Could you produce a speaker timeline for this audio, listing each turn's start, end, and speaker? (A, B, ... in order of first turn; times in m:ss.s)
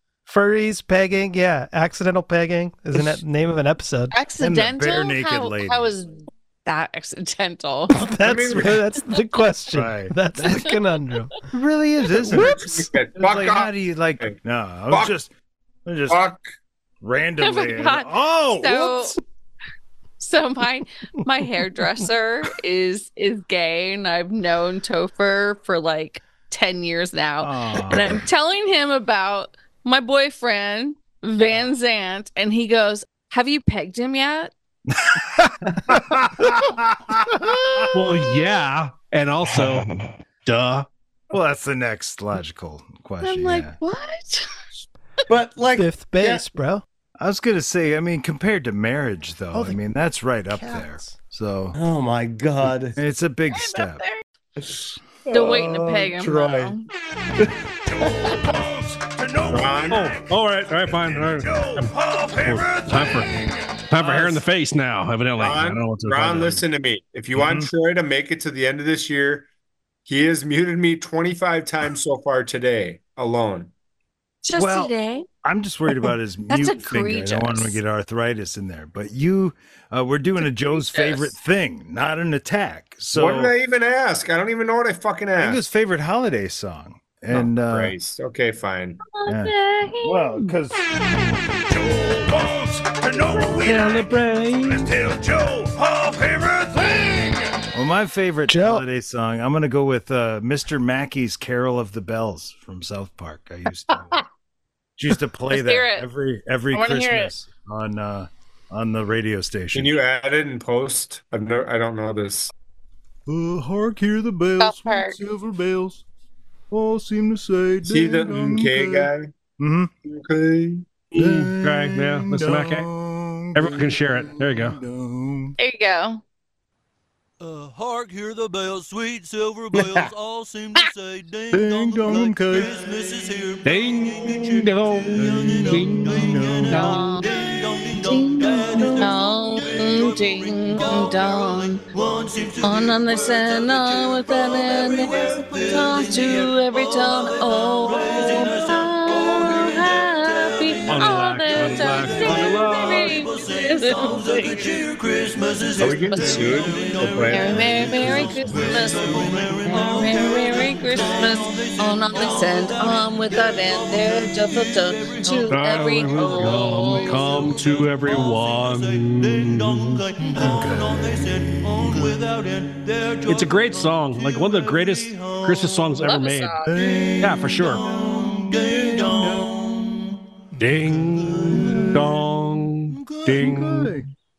0:00.3-0:04.2 A
0:04.1-0:08.0 B
0:04.4-0:05.9 C
0:07.9-0:11.4 A
0:08.2-0:08.9 D
0:09.7-0:10.7 C
0:11.5-0:15.3 C
0:12.2-0:14.4 D
0:12.3-0:12.7 A
0:15.9-0:16.2 C
0:16.1-0:16.4 D
0:17.0-0:19.2 C
0:17.4-0:19.2 B
0:20.2-0:34.5 B
0:27.4-0:28.2 C
0:35.0-0:37.9 C
0:37.9-0:40.9 E
0:41.3-0:43.8 C
0:43.2-0:44.5 B
0:45.3-0:46.4 F
0:45.8-0:46.8 A
0:47.2-0:51.8 C
0:49.5-0:49.8 A
0:50.5-0:51.1 A
0:51.7-0:53.0 F
0:53.0-0:54.0 C
0:53.5-0:54.2 B
0:55.3-0:56.7 F
0:55.3-0:56.9 B
0:58.1-1:03.8 C
0:59.5-1:00.2 D
0:59.9-1:03.4 E
1:03.9-1:06.6 E
1:04.0-1:04.4 D
1:05.4-1:09.5 D
1:07.4-1:07.7 C
1:10.1-1:13.7 D
1:14.4-1:15.3 B
1:14.5-1:23.5 C
1:16.5-1:17.8 B
1:20.7-1:21.4 B
1:23.2-1:25.6 D
1:25.4-1:28.0 C
1:27.3-1:29.0 D
1:29.1-1:30.5 B
1:29.3-1:30.8 C
1:31.6-1:34.0 C
1:33.6-1:34.8 E
1:33.9-1:34.4 A
1:34.6-1:44.2 C
1:38.5-1:38.8 A
1:45.0-1:49.9 C
1:45.5-1:46.1 B
1:46.7-1:47.3 B
1:49.7-1:52.5 D
1:53.3-1:56.0 C
1:54.6-1:55.2 B
1:56.7-1:59.9 C
1:57.8-1:59.3 D
2:00.0-2:00.9 D
2:01.2-2:02.9 E
2:01.2-2:05.6 C
2:03.6-2:04.8 E
2:05.6-2:06.2 B
2:07.4-2:56.0 G
2:09.7-2:10.1 F
2:11.5-2:12.8 C
2:13.6-2:17.1 E
2:15.2-2:17.0 C
2:16.8-2:17.3 B
2:18.0-2:21.8 B
2:22.6-2:34.7 B
2:30.9-2:33.2 E
2:35.8-2:38.4 D
2:36.1-2:36.6 B
2:37.3-2:47.2 B
2:38.0-2:39.0 C
2:45.5-2:50.0 E
2:50.3-2:52.2 C
2:53.3-2:56.6 E
2:56.0-2:56.8 B
2:56.6-2:59.5 C
2:56.7-3:00.1 G
2:57.2-2:57.8 E
3:00.6-3:04.0 E
3:00.8-3:02.1 G
3:01.3-3:02.0 C
3:03.0-3:04.1 C